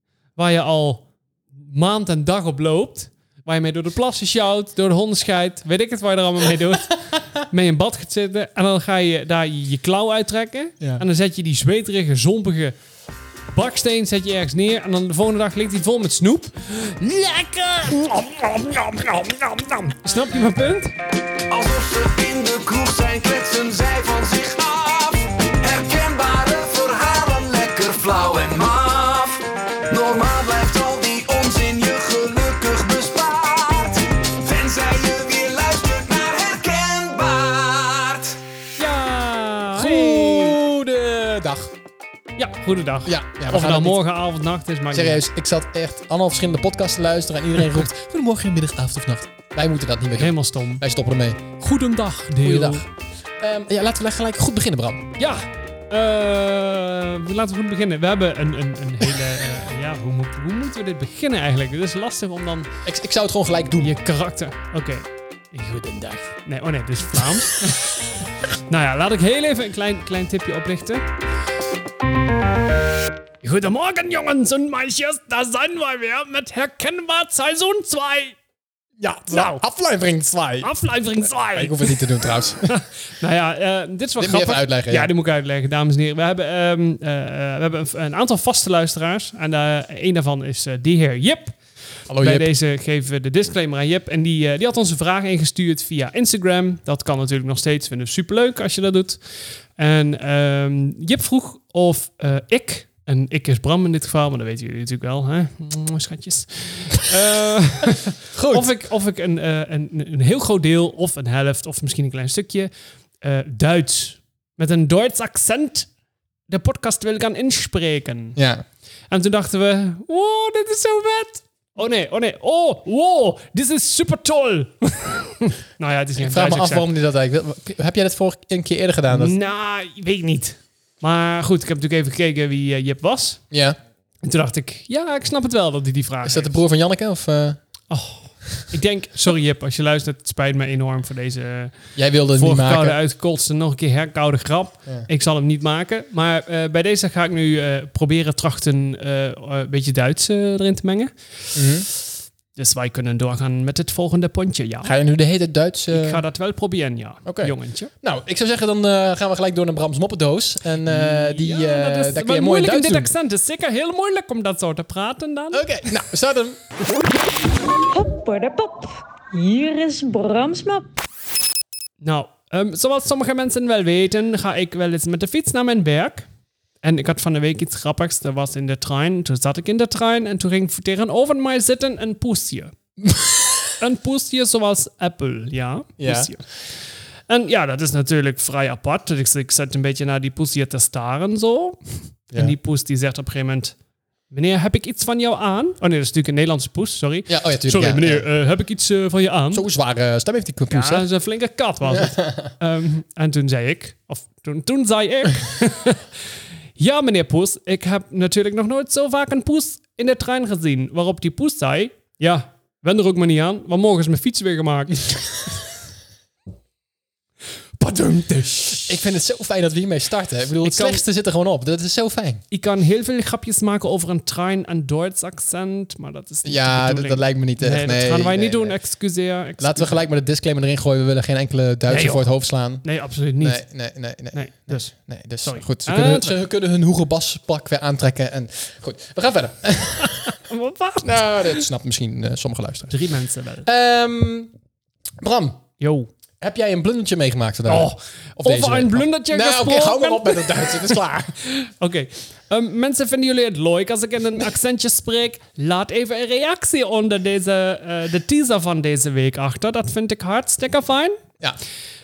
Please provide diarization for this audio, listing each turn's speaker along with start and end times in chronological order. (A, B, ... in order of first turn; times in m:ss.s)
0:00.4-0:01.0 A
0:01.6-0:12.8 A
0:13.5-0:21.0 A
0:21.5-0:38.4 B
0:38.8-0:40.6 A
0:39.7-0:41.7 C
0:42.4-0:45.2 A
0:43.0-0:44.0 C
0:44.9-0:51.4 C
0:50.2-0:50.8 A
0:51.6-0:52.8 A
0:52.4-0:52.9 C
0:53.4-0:55.1 C
0:55.2-1:02.7 A
1:02.8-1:04.0 C
1:03.8-1:08.0 A
1:08.7-1:11.1 A
1:13.4-1:18.4 A
1:19.0-1:20.7 C
1:19.3-1:19.6 A
1:20.6-1:31.6 A
1:21.4-1:22.7 C
1:24.2-1:25.1 C
1:32.1-1:32.5 C
1:32.1-1:55.9 A
1:48.3-1:48.7 C
1:56.5-1:58.4 A
1:58.4-1:58.6 C
1:59.1-2:06.9 A
2:06.2-2:09.4 C
2:09.1-2:13.4 A
2:13.5-2:13.8 C
2:14.2-2:16.6 A
2:16.2-2:17.6 C
2:17.9-2:21.8 A
2:22.0-2:23.0 C
2:22.4-2:35.0 A
2:31.6-2:31.9 C
2:34.8-2:36.2 C
2:35.9-2:37.9 A
2:37.3-2:43.1 C
2:40.9-2:45.7 A
2:45.5-2:46.6 C
2:47.8-2:50.9 D
2:52.0-2:56.3 A
2:56.8-3:02.7 A
3:03.0-3:03.6 C
3:03.8-3:06.4 A
3:06.0-3:06.3 C
3:07.3-3:13.8 A
3:14.3-3:19.6 A
3:17.3-3:18.2 C
3:19.5-3:21.1 C
3:20.7-3:26.1 A
3:21.9-3:22.5 C
3:26.8-3:35.3 A
3:37.8-3:39.0 A
3:38.9-3:42.4 C
3:40.6-3:41.0 A
3:42.5-3:50.0 A
3:46.4-3:48.8 C
3:49.6-3:52.9 C
3:51.9-3:52.3 A
3:52.8-3:53.6 A
3:53.4-4:00.4 C
3:54.3-3:56.4 A
4:00.0-4:01.7 A
4:01.0-4:03.0 C
4:02.9-4:03.7 A
4:03.6-4:04.5 C
4:05.2-4:05.6 C
4:05.8-4:06.1 A
4:06.4-4:11.4 C
4:07.7-4:21.2 A